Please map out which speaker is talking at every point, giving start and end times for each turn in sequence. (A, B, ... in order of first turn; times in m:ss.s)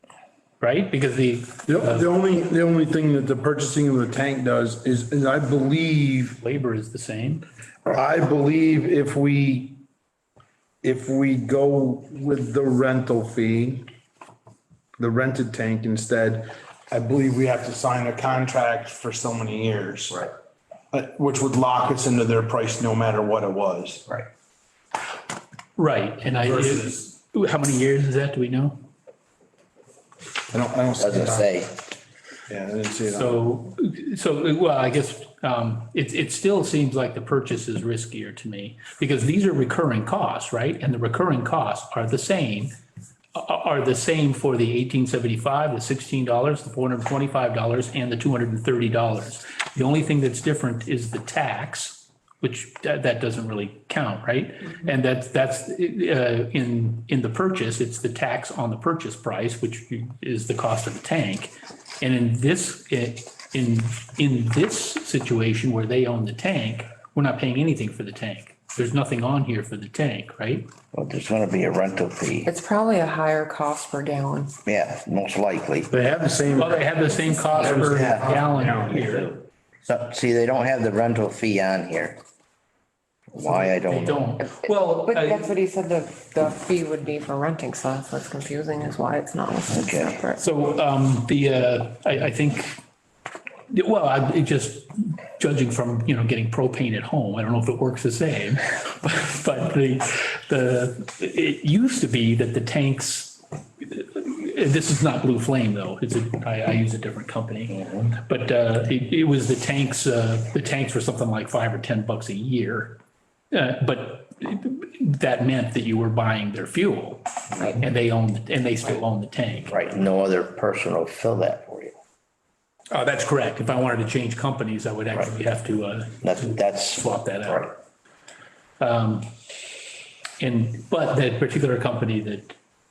0:00.6-0:02.1 A
0:01.6-0:06.4 B
0:06.4-0:07.4 A
0:07.8-0:09.8 B
0:10.8-0:13.9 B
0:15.0-0:20.3 B
0:20.9-0:24.2 B
0:25.8-0:28.8 A
0:26.3-0:27.0 B
0:30.5-0:31.5 B
0:31.0-0:31.8 C
0:32.5-0:33.4 B
0:33.1-0:42.7 A
0:43.3-1:10.7 A
1:10.9-1:12.5 C
1:12.4-1:14.5 D
1:14.6-1:15.9 C
1:15.9-1:17.0 B
1:16.5-1:19.3 A
1:17.6-1:18.3 C
1:17.6-1:19.3 B
1:18.9-1:19.3 C
1:19.8-1:22.2 C
1:23.3-1:24.2 C
1:23.4-1:25.5 A
1:25.0-1:30.4 D
1:29.7-1:30.2 C
1:30.4-1:32.8 A
1:33.7-1:53.0 A
1:53.5-1:59.8 A
1:59.7-2:01.9 C
2:02.9-2:07.8 A
2:06.2-2:07.7 C
2:08.8-2:09.3 A
2:10.4-2:12.6 A